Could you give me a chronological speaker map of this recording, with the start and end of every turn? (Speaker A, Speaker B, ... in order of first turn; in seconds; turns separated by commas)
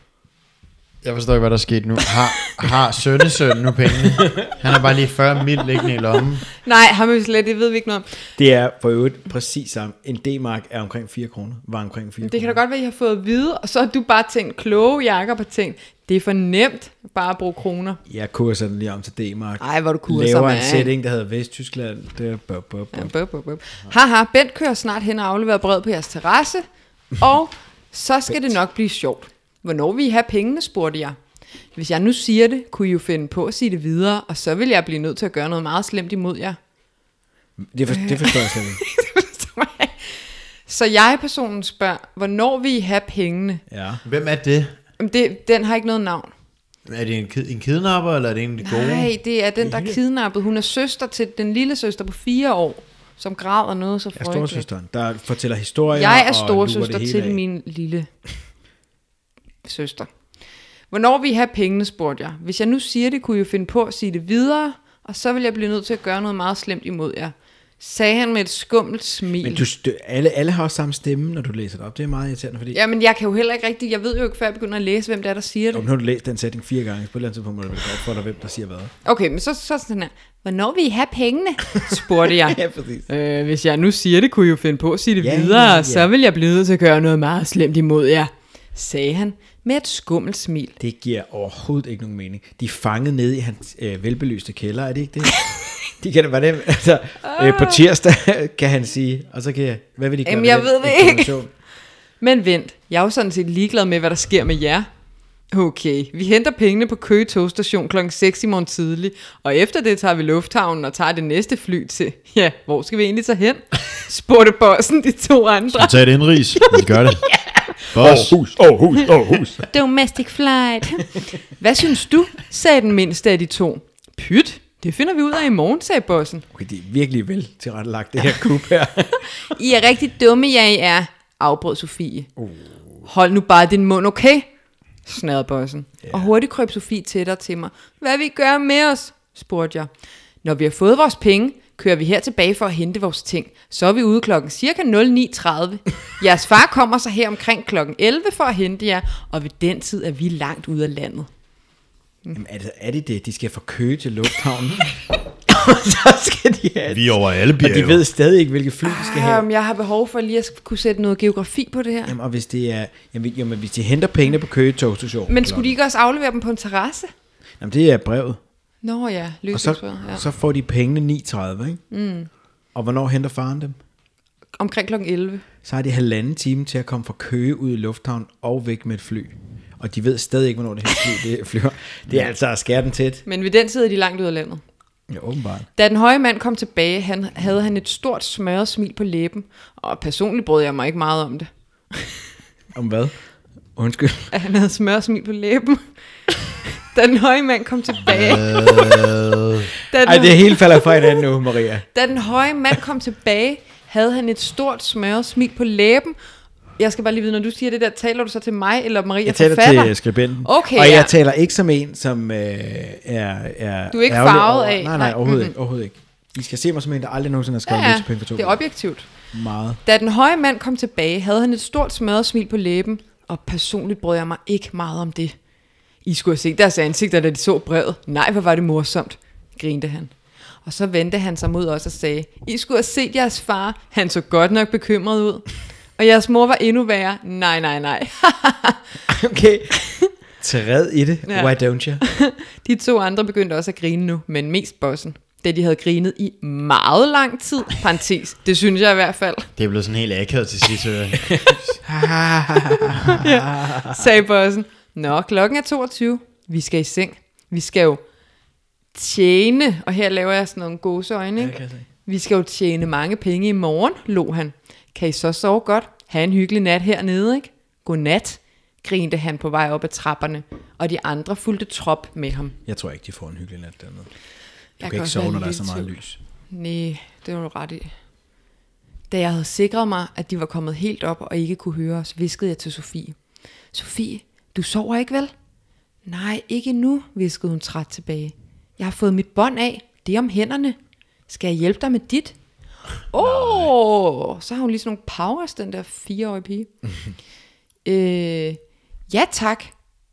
Speaker A: 1.0-6.5, Speaker B: 6.6-8.2, Speaker C: 8.4-12.6, Speaker B: 12.2-18.0, Speaker C: 18.1-23.1, Speaker B: 19.6-20.9, Speaker B: 22.9-26.7, Speaker B: 27.2-31.2, Speaker B: 31.8-36.6, Speaker C: 37.6-38.8, Speaker B: 37.9-43.6, Speaker C: 43.7-44.0, Speaker A: 44.0-44.8, Speaker B: 45.0-46.3, Speaker A: 46.9-49.1, Speaker B: 48.6-54.7, Speaker C: 49.6-50.0, Speaker C: 54.1-57.4, Speaker B: 56.0-58.1, Speaker B: 59.6-60.1, Speaker B: 60.9-69.7, Speaker C: 69.4-72.8, Speaker B: 72.7-75.8, Speaker C: 75.7-78.9, Speaker B: 79.0-90.8, Speaker C: 82.3-83.1, Speaker C: 85.2-86.1, Speaker C: 90.8-101.5, Speaker B: 97.2-97.8, Speaker B: 100.2-101.4, Speaker B: 102.2-104.9, Speaker B: 105.5-116.1, Speaker A: 115.7-117.3, Speaker C: 116.8-119.7, Speaker A: 117.9-118.5, Speaker B: 119.7-126.5, Speaker C: 126.5-129.5, Speaker B: 129.5-132.3, Speaker C: 132.4-133.1, Speaker B: 133.1-134.5, Speaker B: 135.1-139.9, Speaker C: 136.0-136.3, Speaker B: 140.4-151.3, Speaker C: 152.3-159.5, Speaker A: 156.9-158.0, Speaker B: 158.8-162.2, Speaker C: 162.1-165.7, Speaker B: 165.3-167.1, Speaker C: 167.6-168.4, Speaker B: 168.8-170.2, Speaker C: 169.5-171.8, Speaker B: 171.9-172.3, Speaker C: 172.7-173.8, Speaker B: 174.6-175.4, Speaker C: 175.6-183.2, Speaker B: 183.3-184.6, Speaker C: 185.1-185.7, Speaker B: 185.8-192.2, Speaker C: 192.7-193.2, Speaker C: 193.8-194.3, Speaker B: 194.3-195.8, Speaker B: 196.7-199.0, Speaker A: 198.1-199.7, Speaker B: 199.9-201.2, Speaker C: 200.0-201.9, Speaker B: 201.9-206.2, Speaker B: 206.8-211.1, Speaker C: 209.2-218.6, Speaker B: 213.9-215.5, Speaker B: 217.7-219.1, Speaker C: 219.3-219.8, Speaker B: 219.8-225.4, Speaker B: 226.0-230.1, Speaker B: 230.7-238.8, Speaker C: 239.1-239.8, Speaker C: 240.4-242.0, Speaker B: 241.2-249.5, Speaker A: 249.6-251.8, Speaker C: 251.8-254.0, Speaker B: 253.0-258.0, Speaker B: 258.9-272.6, Speaker C: 261.4-261.9, Speaker C: 272.7-274.1, Speaker B: 274.8-275.9, Speaker C: 274.8-276.2, Speaker B: 276.5-277.9, Speaker B: 279.1-283.2, Speaker B: 283.7-285.3, Speaker B: 286.1-290.8, Speaker B: 291.3-292.4, Speaker B: 293.1-296.7, Speaker B: 297.9-299.7